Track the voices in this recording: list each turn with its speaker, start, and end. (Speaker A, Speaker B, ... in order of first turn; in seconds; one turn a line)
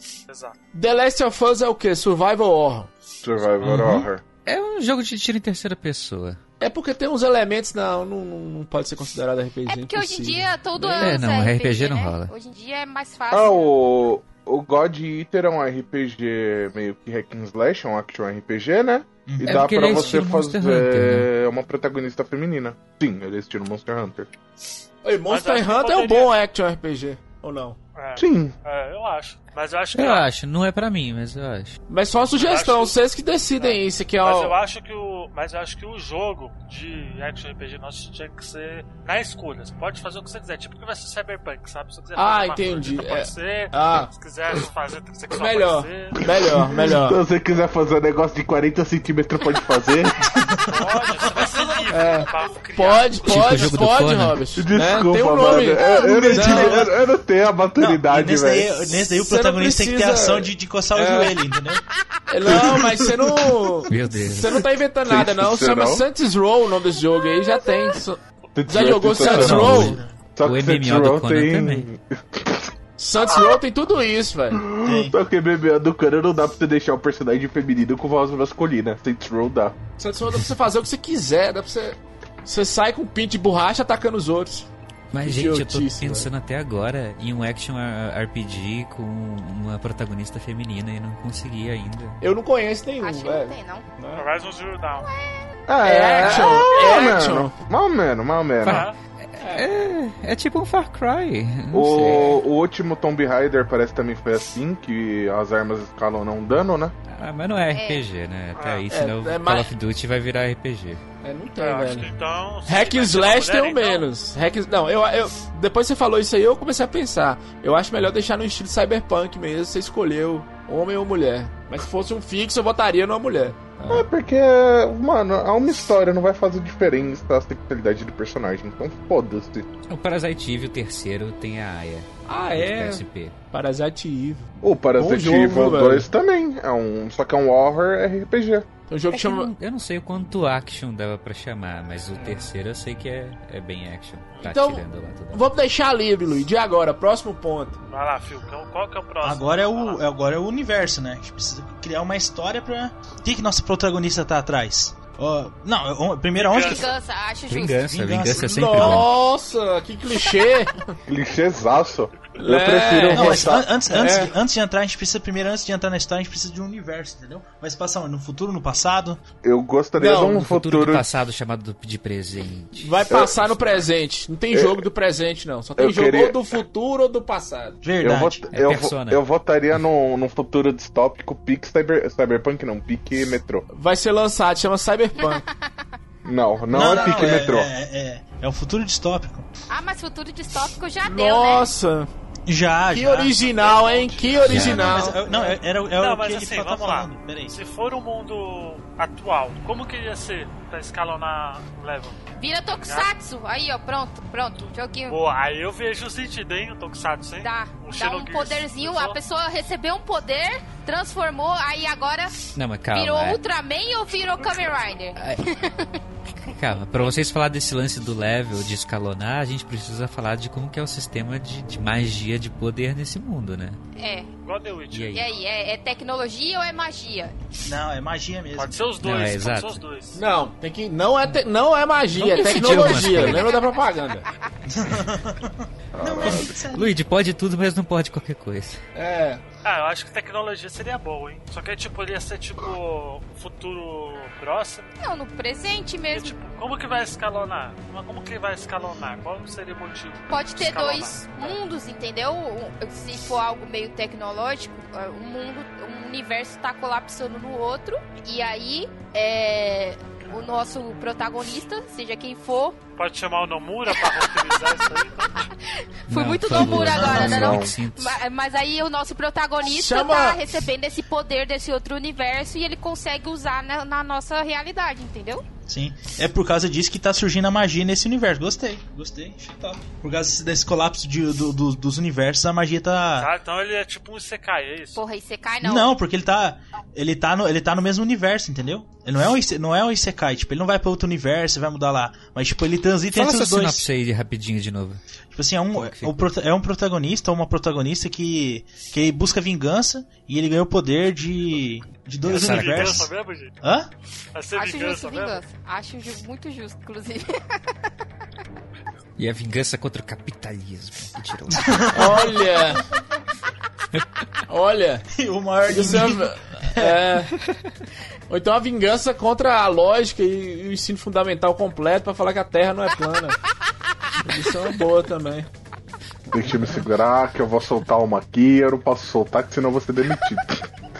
Speaker A: 0.3-0.6
Speaker B: 0.7-2.9
Speaker C: 3.2-4.2
Speaker D: 3.6-6.4
Speaker B: 6.6-10.9
Speaker E: 9.7-13.7
Speaker D: 10.8-12.3
Speaker C: 13.3-24.3
Speaker F: 19.2-20.1
Speaker D: 19.4-21.3
Speaker B: 25.0-27.8
Speaker A: 25.3-26.3
Speaker A: 27.9-30.3
Speaker C: 28.1-28.5
Speaker D: 29.9-31.8
Speaker B: 31.9-34.5
Speaker A: 32.4-33.0
Speaker A: 33.5-46.2
Speaker B: 42.1-44.1
Speaker B: 45.3-47.2
Speaker C: 46.3-50.3
Speaker F: 50.3-50.8
Speaker A: 50.7-53.8
Speaker B: 51.9-56.8
Speaker D: 53.2-54.4
Speaker C: 54.5-58.9
Speaker F: 55.9-56.9
Speaker F: 57.8-61.8
Speaker B: 59.1-61.3
Speaker B: 62.3-70.0
Speaker F: 62.5-63.1
Speaker D: 63.9-64.7
Speaker C: 65.0-66.0
Speaker C: 68.5-72.7
Speaker D: 69.2-71.9
Speaker F: 69.8-70.1
Speaker B: 73.0-74.6
Speaker C: 74.5-79.8
Speaker F: 74.8-75.2
Speaker B: 80.0-84.7
Speaker D: 85.1-92.2
Speaker B: 85.2-86.3
Speaker B: 92.2-94.2
Speaker E: 93.0-93.8
Speaker A: 94.1-95.1
Speaker E: 95.0-95.5
Speaker C: 95.7-98.8
Speaker B: 95.8-97.5
Speaker D: 98.6-102.3
Speaker A: 98.7-99.0
Speaker B: 99.4-99.7
Speaker C: 101.7-106.9
Speaker B: 102.0-102.4
Speaker D: 107.1-111.0
Speaker E: 107.7-108.0
Speaker A: 108.5-108.8
Speaker B: 108.9-109.7
Speaker B: 111.2-112.1
Speaker A: 111.6-114.1
Speaker B: 112.7-124.0
Speaker C: 123.9-129.7
Speaker D: 129.9-133.3
Speaker B: 132.3-136.1
Speaker C: 134.6-138.7
Speaker B: 138.9-139.5
Speaker D: 139.1-145.5
Speaker B: 142.1-142.5
Speaker B: 144.4-147.8
Speaker A: 147.9-150.0
Speaker F: 149.2-156.9
Speaker A: 156.3-156.9
Speaker E: 156.6-157.8
Speaker D: 157.5-159.1
Speaker F: 157.8-159.0
Speaker B: 158.3-160.9
Speaker C: 161.1-163.8
Speaker B: 162.4-164.3
Speaker F: 163.1-169.2
Speaker C: 169.4-171.1
Speaker B: 170.0-170.4
Speaker D: 170.3-173.8
Speaker B: 172.8-177.8
Speaker C: 173.1-173.3
Speaker C: 174.5-174.8
Speaker C: 175.8-176.5
Speaker F: 177.8-178.5
Speaker C: 178.0-183.6
Speaker D: 178.5-179.2
Speaker B: 183.7-185.4
Speaker C: 186.2-187.7
Speaker F: 186.7-189.5
Speaker B: 186.8-187.3
Speaker E: 189.7-191.7
Speaker B: 191.0-192.1
Speaker F: 192.5-197.6
Speaker B: 192.9-195.6
Speaker D: 194.5-195.1
Speaker A: 195.9-202.2
Speaker E: 202.4-205.2
Speaker A: 202.8-203.1
Speaker A: 205.1-209.2
Speaker E: 207.4-215.9
Speaker D: 212.5-213.4
Speaker D: 215.2-215.4
Speaker D: 216.4-223.8
Speaker E: 223.9-224.3
Speaker A: 224.4-225.2
Speaker D: 224.9-225.2
Speaker E: 225.1-227.3
Speaker F: 227.6-228.9
Speaker A: 228.5-230.2
Speaker D: 229.0-229.8
Speaker B: 230.1-234.3
Speaker D: 232.1-233.5
Speaker F: 234.7-237.0
Speaker B: 235.9-236.5
Speaker D: 236.7-238.8
Speaker B: 238.9-239.4
Speaker A: 239.6-244.9
Speaker E: 245.0-246.3
Speaker A: 246.1-251.6
Speaker E: 250.3-262.8
Speaker A: 263.0-265.5
Speaker E: 263.9-264.3
Speaker D: 266.1-268.2
Speaker E: 266.1-275.4
Speaker F: 266.7-267.4
Speaker C: 267.1-267.8
Speaker B: 269.7-270.4
Speaker F: 275.7-283.3
Speaker A: 283.2-285.0
Speaker E: 284.9-285.9
Speaker F: 285.6-293.9
Speaker D: 293.1-295.0
Speaker F: 295.3-303.1
Speaker D: 295.7-296.3
Speaker D: 302.2-303.1
Speaker A: 302.2-303.6
Speaker F: 303.6-303.9
Speaker A: 304.3-305.4
Speaker E: 304.5-307.6
Speaker D: 309.2-311.9
Speaker F: 311.6-312.1
Speaker B: 311.9-312.8
Speaker B: 314.5-315.0
Speaker F: 315.1-317.0
Speaker B: 315.7-317.4
Speaker B: 318.3-323.4
Speaker B: 324.2-325.5
Speaker C: 326.3-330.7